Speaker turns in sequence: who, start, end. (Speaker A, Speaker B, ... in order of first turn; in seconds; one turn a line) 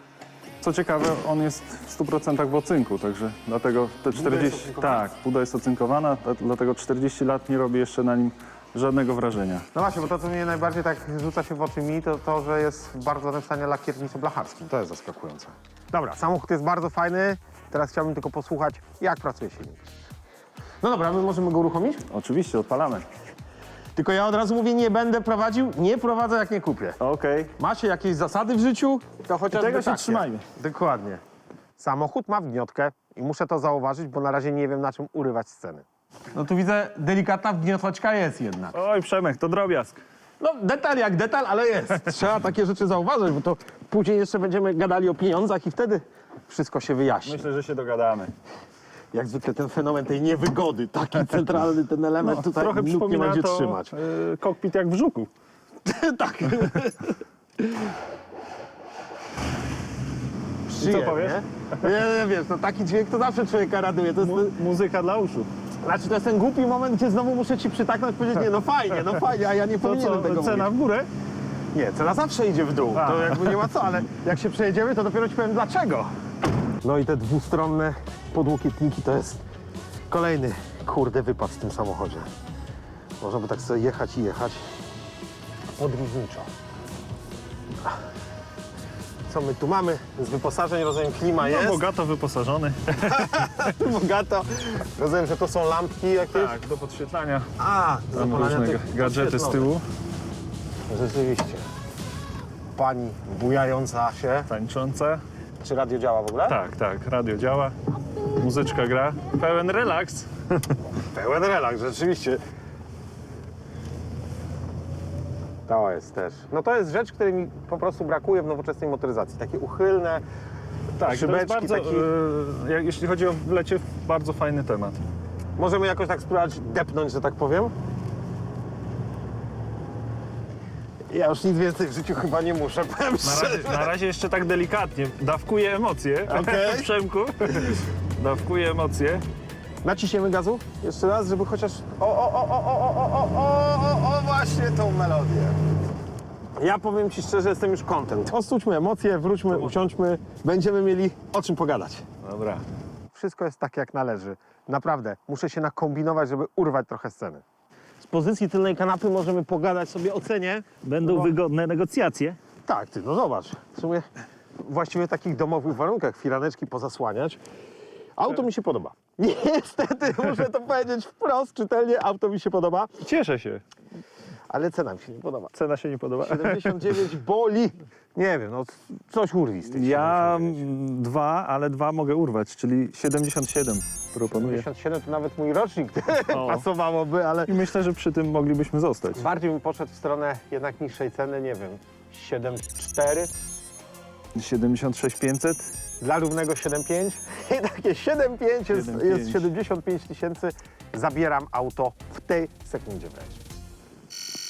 Speaker A: 0.6-9.7
Speaker B: 4.1-5.1
Speaker B: 9.7-19.9
Speaker B: 20.8-22.1
Speaker A: 22.1-23.1
Speaker B: 23.9-27.0
Speaker A: 27.0-27.6
Speaker B: 27.6-31.2
Speaker A: 29.5-30.4
Speaker B: 31.8-38.8
Speaker A: 38.7-40.0
Speaker B: 40.4-47.5
Speaker A: 47.2-48.3
Speaker B: 49.1-54.0
Speaker A: 52.2-55.3
Speaker B: 55.9-57.9
Speaker B: 60.7-64.6
Speaker A: 60.8-61.9
Speaker A: 64.2-65.5
Speaker B: 65.8-70.7
Speaker A: 69.8-71.1
Speaker B: 71.7-76.1
Speaker A: 72.9-73.7
Speaker B: 76.8-79.4
Speaker B: 80.1-82.3
Speaker B: 83.2-84.6
Speaker B: 85.8-86.5
Speaker B: 89.3-91.8
Speaker A: 91.4-93.7
Speaker B: 93.0-96.6
Speaker A: 96.3-97.5
Speaker B: 97.6-99.7
Speaker A: 98.1-99.8
Speaker B: 100.9-101.7
Speaker B: 102.8-104.5
Speaker A: 104.5-105.2
Speaker B: 105.6-106.6
Speaker A: 106.5-107.8
Speaker A: 108.3-110.8
Speaker B: 111.1-112.4
Speaker B: 115.7-120.2
Speaker A: 121.0-125.0
Speaker B: 121.0-122.1
Speaker B: 125.6-127.7
Speaker B: 131.1-133.9
Speaker A: 133.2-139.2
Speaker B: 136.3-136.9
Speaker B: 139.8-145.6
Speaker B: 146.6-152.1
Speaker A: 152.2-152.7
Speaker B: 153.1-157.4
Speaker B: 158.0-161.3
Speaker A: 160.8-162.4
Speaker B: 162.7-164.1
Speaker B: 164.6-167.4
Speaker B: 168.2-173.0
Speaker A: 173.0-173.6
Speaker B: 174.5-175.5
Speaker A: 175.5-176.9
Speaker B: 176.2-180.6
Speaker A: 179.7-184.7
Speaker B: 184.4-187.6
Speaker A: 186.3-186.7
Speaker A: 187.5-189.2
Speaker B: 189.2-193.3
Speaker A: 194.3-195.7
Speaker B: 196.0-203.4
Speaker A: 198.7-199.5